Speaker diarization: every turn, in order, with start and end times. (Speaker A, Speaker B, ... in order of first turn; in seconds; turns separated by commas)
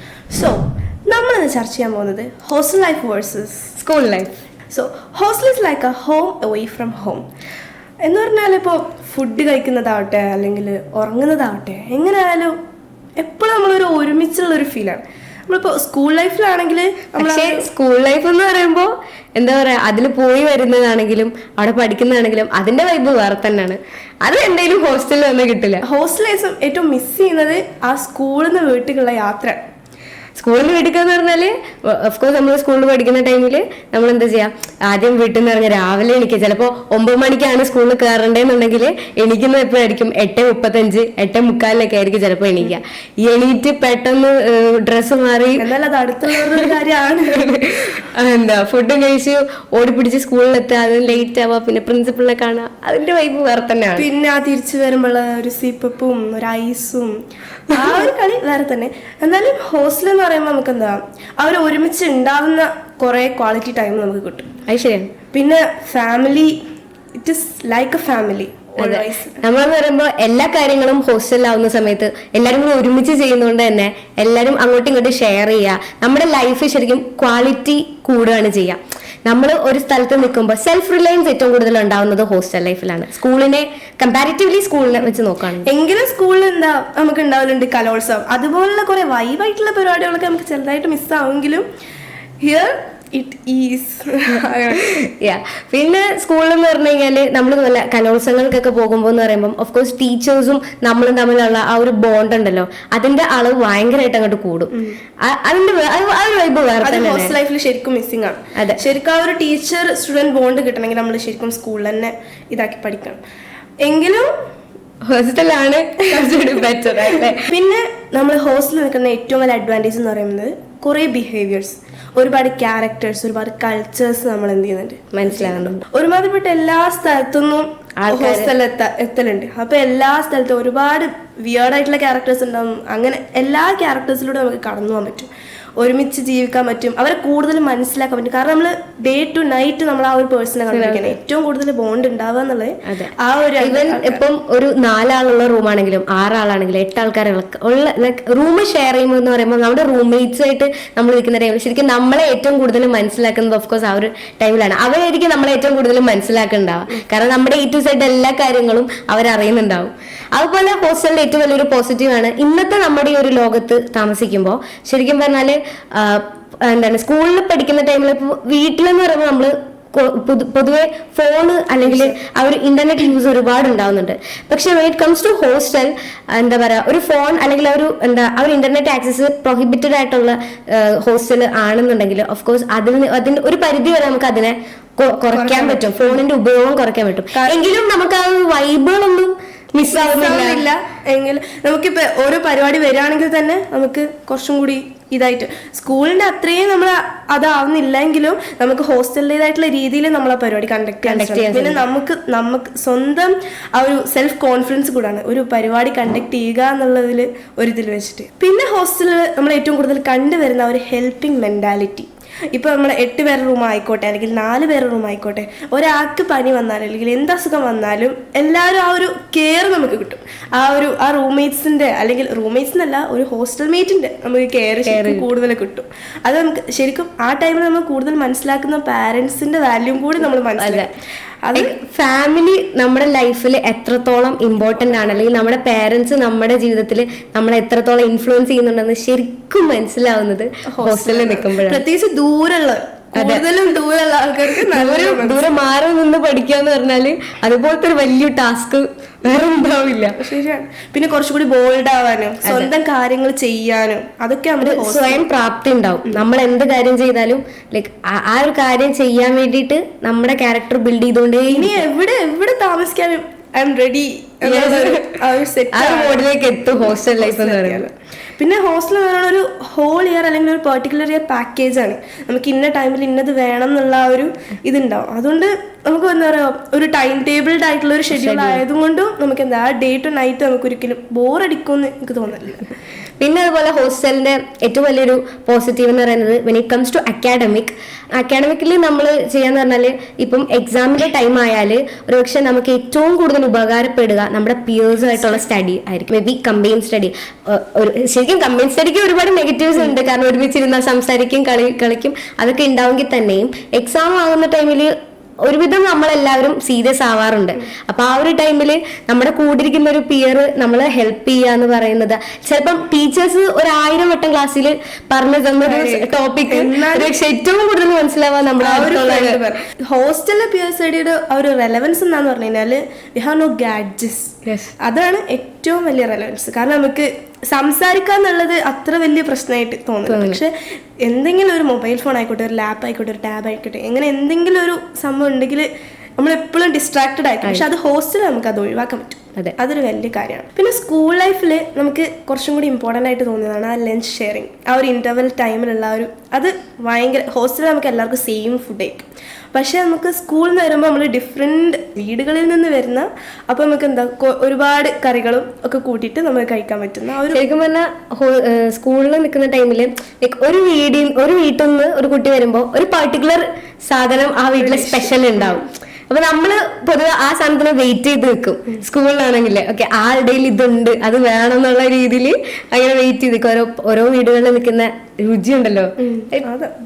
Speaker A: 0.3-3.7, Speaker B: 3.8-4.3, Speaker A: 4.7-7.2, Speaker A: 8.0-12.6, Speaker A: 13.2-17.7, Speaker B: 17.2-25.8, Speaker A: 25.8-29.6, Speaker B: 30.4-45.6, Speaker A: 45.6-47.4, Speaker B: 47.4-54.0, Speaker A: 54.0-57.1, Speaker A: 57.7-64.5, Speaker B: 64.7-65.1, Speaker A: 65.3-66.5, Speaker A: 67.2-69.4, Speaker B: 68.8-85.7, Speaker A: 85.7-91.6, Speaker A: 92.4-94.9, Speaker B: 94.9-107.3, Speaker A: 104.7-105.0, Speaker A: 106.8-113.2, Speaker B: 108.5-108.8, Speaker A: 113.8-114.3, Speaker B: 115.1-117.5, Speaker A: 117.1-144.2, Speaker B: 125.1-125.8, Speaker B: 128.0-128.5, Speaker B: 140.7-141.2, Speaker B: 142.9-190.7, Speaker A: 171.8-172.1, Speaker A: 185.3-186.2, Speaker A: 187.3-187.6, Speaker A: 189.9-230.9, Speaker B: 201.1-201.8, Speaker B: 224.8-225.3, Speaker B: 230.6-230.9, Speaker A: 231.4-231.7, Speaker B: 231.5-241.8, Speaker A: 240.7-245.5, Speaker B: 243.1-243.4, Speaker B: 244.7-250.2, Speaker A: 250.2-255.2, Speaker B: 254.6-261.8, Speaker A: 261.5-282.7, Speaker B: 264.4-265.2, Speaker B: 265.7-267.9, Speaker B: 278.1-278.6, Speaker B: 283.2-319.4, Speaker A: 295.1-295.4, Speaker A: 315.6-317.1, Speaker A: 318.6-357.5, Speaker B: 324.4-324.7, Speaker B: 330.1-330.4, Speaker B: 357.3-376.5, Speaker A: 364.6-365.6, Speaker A: 376.0-376.7